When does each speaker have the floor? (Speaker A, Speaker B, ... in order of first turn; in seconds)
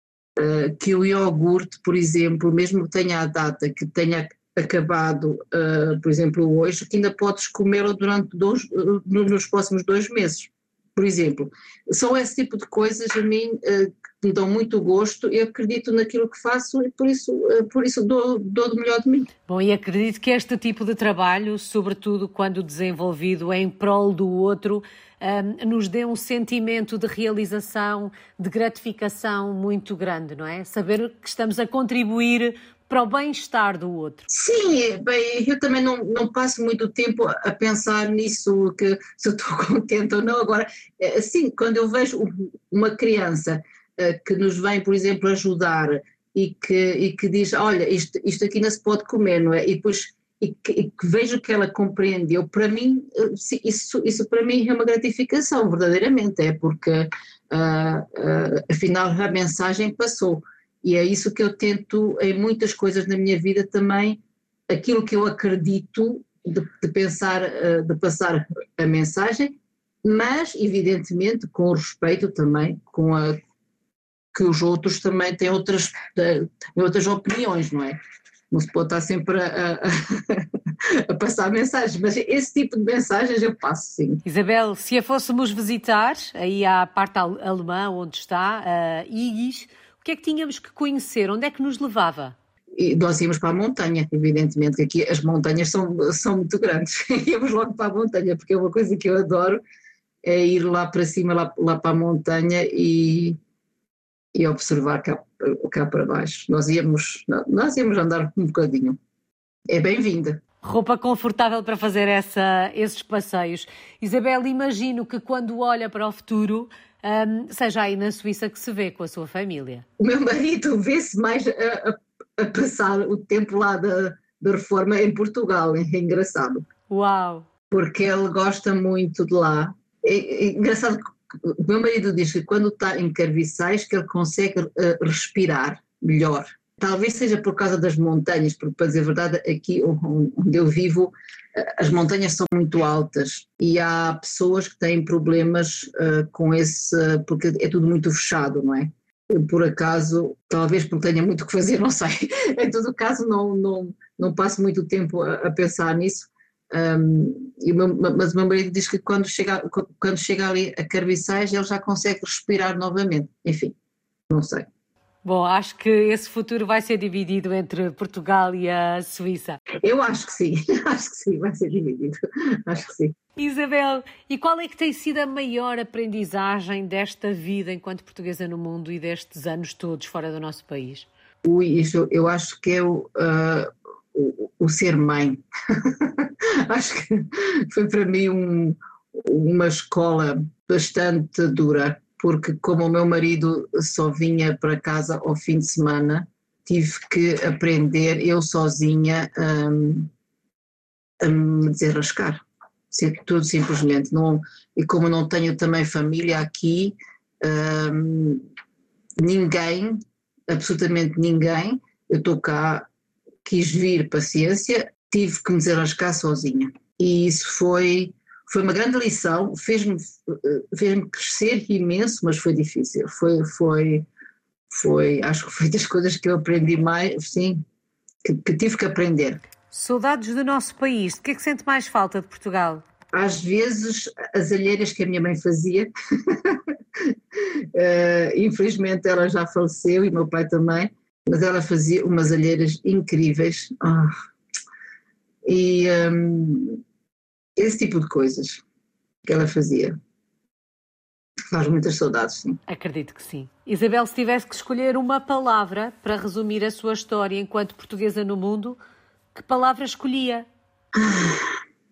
Speaker A: 0.3-19.3, 34.3-73.4, 74.3-78.0, 78.5-84.2, 92.8-99.6, 100.2-103.4, 104.3-109.0, 109.7-110.4, 120.0-126.7, 127.7-163.7, 164.3-164.7, 169.8-173.1, 181.4-200.1, 201.2-208.4, 209.2-212.9, 213.4-224.1, 224.7-227.6, 228.2-229.4, 233.1-244.1, 245.4-246.8, 247.6-248.6, 249.2-250.0, 251.5-252.6, 260.9-261.6
Speaker B: 19.5-34.3, 84.2-92.3, 110.6-119.8, 126.9-127.4, 165.2-169.6, 173.4-181.1, 229.7-232.8, 252.7-258.8, 259.3-260.5